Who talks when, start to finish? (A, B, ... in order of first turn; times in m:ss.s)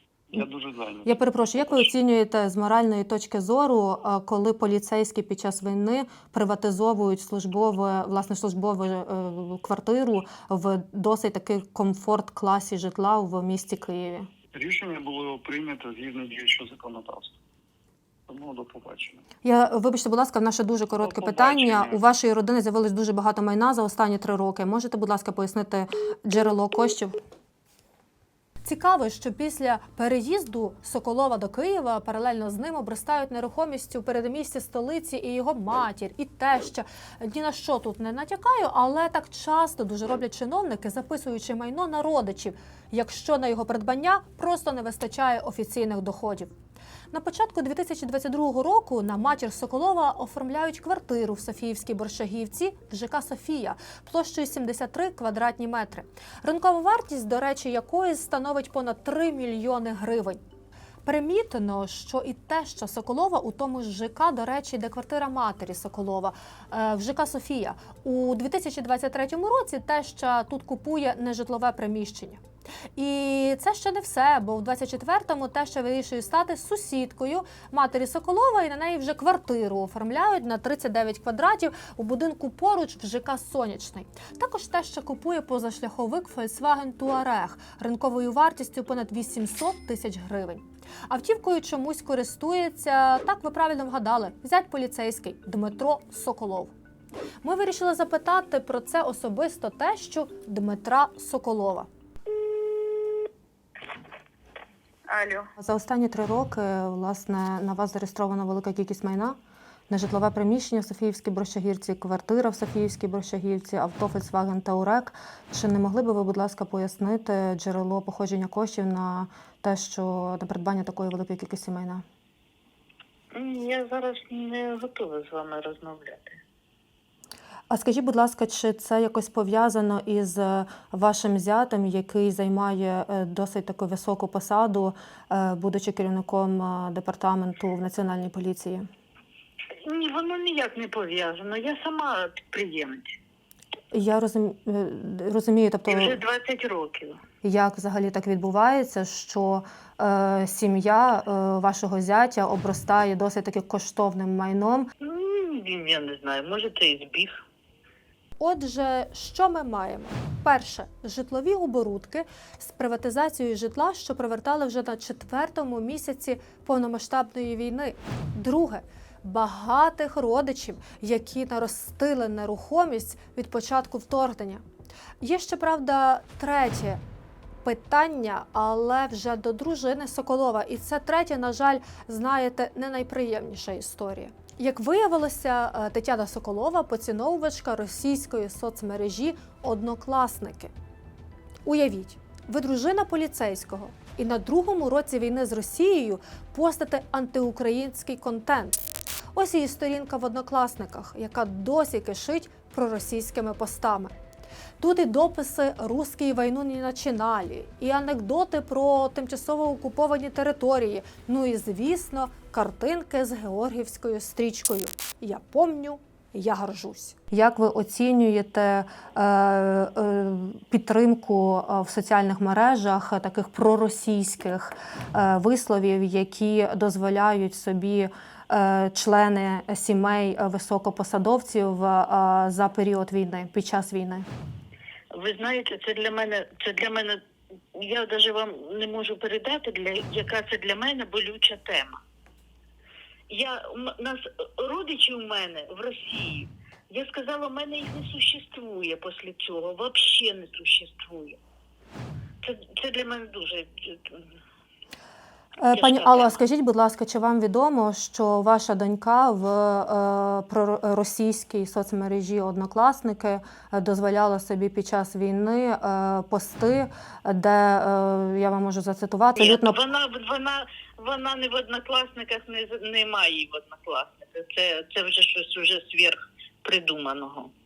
0:00.3-0:01.9 A
0:01.1-0:14.3 B
0:14.6-0:17.4 A
0:18.3-0:19.2 A
0:19.4-0:27.2 B
0:21.0-0:22.0 A
0:28.6-0:46.5 B
0:47.1-1:00.4 B
1:01.0-1:12.4 B
1:13.0-1:36.7 B
1:37.4-1:41.9 B
1:45.1-1:45.4 C
1:45.6-1:49.4 B
1:49.9-2:02.0 B
2:03.4-2:06.4 C
2:07.7-2:18.9 B
2:19.8-2:23.1 C
2:23.9-2:26.2 B
2:25.9-2:27.2 C
2:27.4-2:34.9 B
2:35.0-2:37.3 C
2:38.4-2:54.6 B
2:55.2-2:57.0 B
2:57.6-3:10.7 B
3:11.6-3:18.8 B
3:19.4-3:24.1 B
3:24.8-3:54.3 B
3:55.2-3:57.2 C
3:57.8-4:02.0 C
4:03.3-4:11.4 C
4:12.4-4:14.2 C
4:15.6-4:29.8 B
4:15.7-4:16.3 C
4:29.4-4:37.5 C